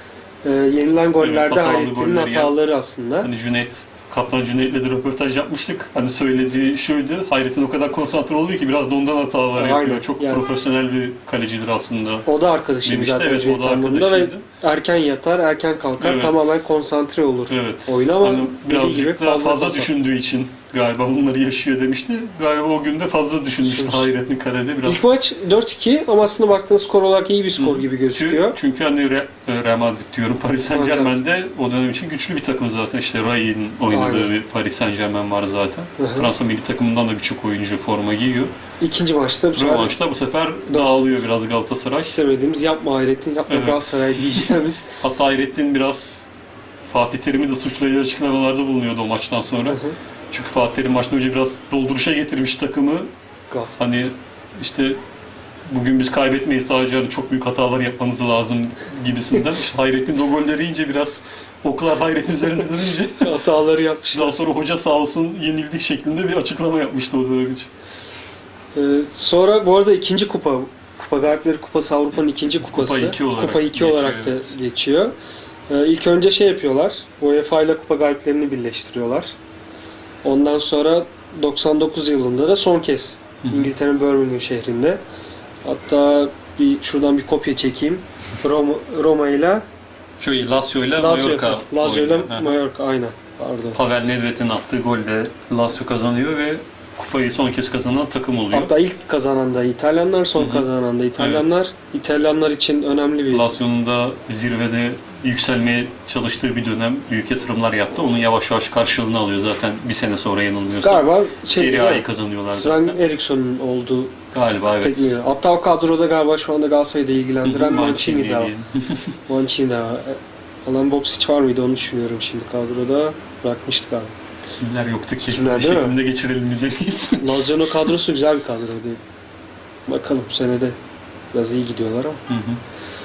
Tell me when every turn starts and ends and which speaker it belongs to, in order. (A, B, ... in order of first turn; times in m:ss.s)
0:00.4-0:03.3 A
0:01.2-0:02.6 B
0:03.2-0:12.2 B
0:09.5-0:10.4 A
0:12.2-0:19.9 A
0:12.8-0:14.4 B
0:16.0-0:16.6 B
0:17.5-0:25.0 B
0:23.6-0:24.1 A
0:24.8-0:28.6 A
0:27.6-0:38.5 B
0:30.7-0:31.2 A
0:33.9-0:34.3 A
0:36.0-0:36.3 A
0:38.8-0:39.9 A
0:39.5-0:42.2 B
0:40.7-0:41.1 A
0:42.0-0:44.8 A
0:43.5-0:46.3 B
0:46.9-0:53.1 B
0:49.7-0:50.0 A
0:53.5-0:53.8 A
0:53.8-0:55.0 B
0:55.7-1:03.3 B
1:03.2-1:04.4 A
1:04.1-1:07.7 B
1:08.7-1:15.1 A
1:12.7-1:14.6 B
1:15.7-1:19.3 A
1:20.2-1:25.0 A
1:23.4-1:23.7 B
1:25.6-1:29.6 A
1:30.2-1:32.6 B
1:31.0-1:33.8 A
1:33.7-1:38.7 B
1:38.5-1:43.5 A
1:40.4-1:41.6 B
1:43.3-1:53.0 B
1:50.7-1:54.2 A
1:54.3-1:55.2 B
1:54.8-1:58.5 A
1:57.4-1:59.2 B
1:59.3-2:04.1 A
2:04.5-2:07.9 B
2:05.3-2:06.0 A
2:07.2-2:09.0 A
2:09.9-2:10.8 A
2:11.3-2:12.2 A
2:12.3-2:12.6 B